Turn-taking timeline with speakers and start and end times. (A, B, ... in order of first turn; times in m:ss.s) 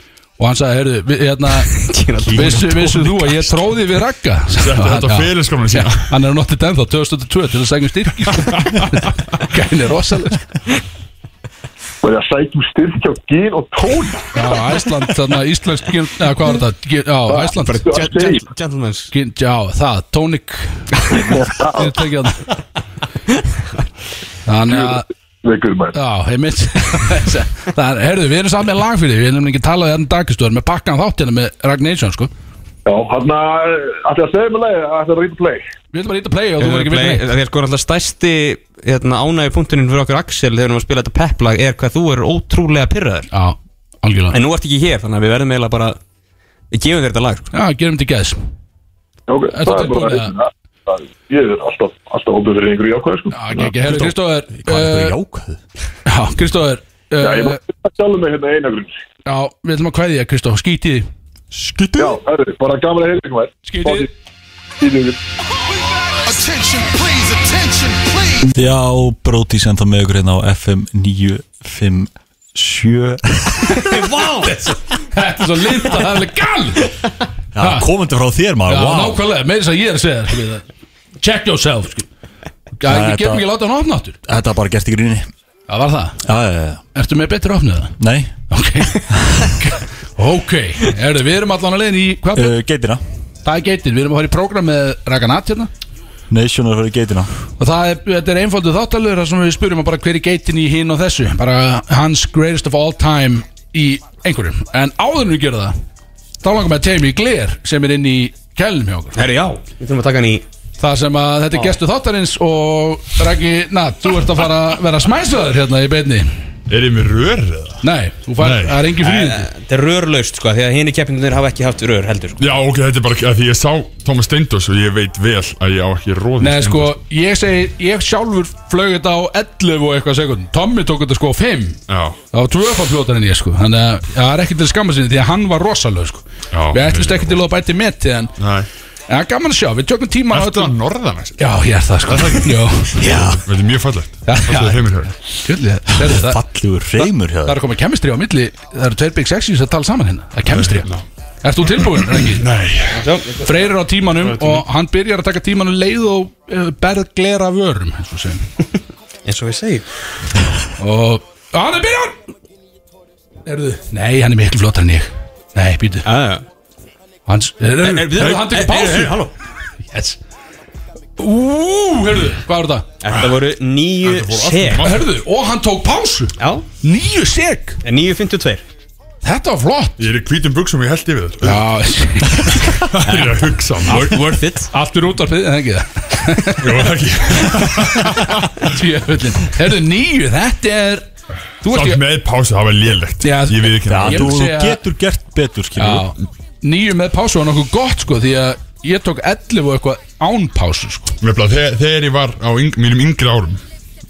0:00.4-0:10.5 A
0:01.7-0:03.1 B
0:02.2-0:03.2 C
0:04.5-0:06.1 D
0:08.6-0:08.9 D
0:12.0-0:14.3 E
0:14.3-0:17.8 A
0:17.3-0:18.4 E
0:17.6-0:19.1 B
0:19.1-0:22.4 A
0:21.2-0:21.9 E
0:24.4-0:25.0 A
0:24.7-0:25.9 E
0:25.9-0:32.3 A
0:32.8-0:35.6 E
0:35.9-0:37.3 A
0:36.6-0:43.3 B
0:43.3-0:44.4 A
0:44.3-0:46.0 B
0:46.7-0:47.5 B
0:47.5-0:48.4 A
0:49.3-0:53.5 E
0:49.5-0:50.3 A
0:53.3-0:55.2 A
0:53.8-0:55.6 C
0:56.0-0:57.6 A
0:57.2-0:58.9 E
0:59.2-1:01.1 A
1:01.5-1:02.2 C
1:02.0-1:04.1 E
1:03.6-1:04.1 A
1:04.8-1:05.2 E
1:06.5-1:06.9 C
1:08.4-1:13.9 C
1:13.8-1:14.5 B
1:14.4-1:16.9 A
1:17.5-1:19.2 C
1:17.6-1:17.9 A
1:18.7-1:20.6 A
1:21.2-1:22.1 A
1:22.8-1:24.2 A
1:22.8-1:23.5 C
1:24.2-1:25.3 C
1:25.7-1:26.2 A
1:26.2-1:26.8 C
1:26.9-1:28.0 A
1:28.0-1:28.3 C
1:28.5-1:32.6 A
1:32.3-1:33.0 C
1:33.4-1:35.7 A
1:36.3-1:37.3 C
1:37.6-1:45.7 A
1:46.4-1:49.2 A
1:49.1-1:50.4 B
1:50.8-1:56.3 A
1:56.7-1:57.8 D
1:57.8-1:59.5 A
1:58.4-1:58.8 D
1:59.0-2:02.4 B
2:02.4-2:07.0 D
2:06.4-2:11.8 A
2:11.9-2:12.2 D
2:12.3-2:18.3 A
2:16.5-2:17.4 D
2:18.4-2:18.7 D
2:19.1-2:20.7 A
2:20.3-2:25.1 D
2:21.4-2:23.2 A
2:23.0-2:23.4 C
2:24.2-2:26.4 A
2:26.0-2:27.6 C
2:27.0-2:30.9 A
2:30.5-2:31.0 D
2:31.4-2:32.4 A
2:31.7-2:33.1 D
2:32.9-2:33.6 B
2:33.4-2:38.4 A
2:34.2-2:34.6 D
2:39.2-2:39.8 B
2:40.8-2:42.2 A
2:43.4-2:46.1 A
2:46.0-2:46.4 B
2:47.3-2:49.2 A
2:47.8-2:49.3 B
2:49.9-2:50.2 A
2:51.2-2:52.9 A
2:53.0-2:54.9 B
2:54.0-2:55.1 D
2:54.8-2:57.8 A
2:56.4-2:56.6 B
2:57.8-2:58.6 B
2:59.2-3:00.0 A
3:00.0-3:01.6 D
3:01.4-3:02.8 A
3:02.7-3:04.2 D
3:03.0-3:04.7 B
3:04.7-3:06.9 A
3:06.6-3:08.7 D
3:08.6-3:11.1 A
3:11.6-3:12.0 A
3:11.6-3:14.4 D
3:13.2-3:14.8 A
3:13.8-3:16.1 C
3:15.8-3:21.1 A
3:21.2-3:23.6 D